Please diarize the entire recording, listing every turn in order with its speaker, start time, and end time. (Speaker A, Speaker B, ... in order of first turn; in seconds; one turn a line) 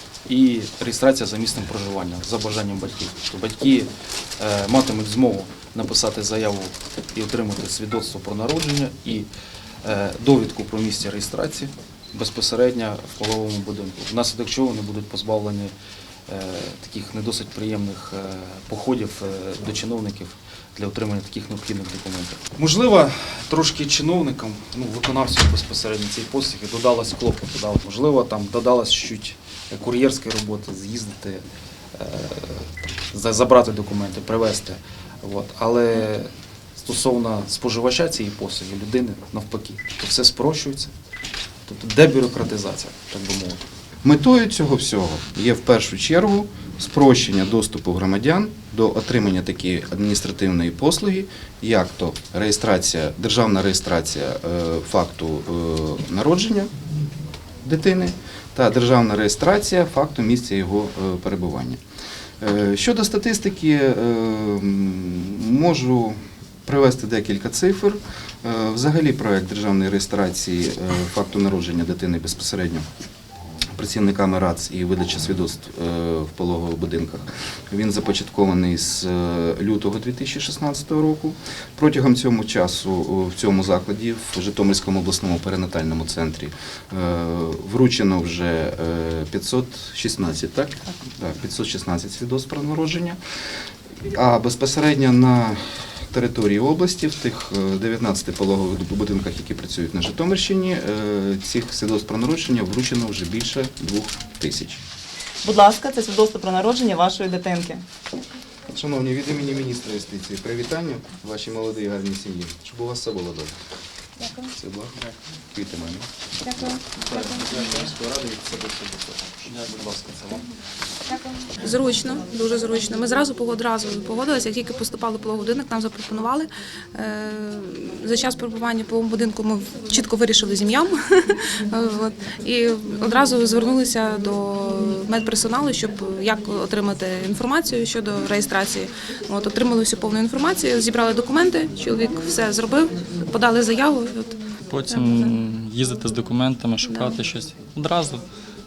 Speaker A: 0.3-9.3
Speaker A: 9.8-15.7
Speaker A: 16.3-40.9
Speaker A: 41.7-43.6
Speaker B: 44.0-56.7
Speaker B: 57.6-61.8
Speaker B: 62.4-72.9
Speaker B: 73.8-93.2
Speaker B: 94.0-104.8
Speaker C: 105.4-107.8
Speaker B: 108.7-113.5
Speaker B: 114.5-116.8
Speaker A: 117.0-120.5
Speaker D: 121.5-144.4
Speaker E: 144.7-148.3
Speaker D: 144.9-145.3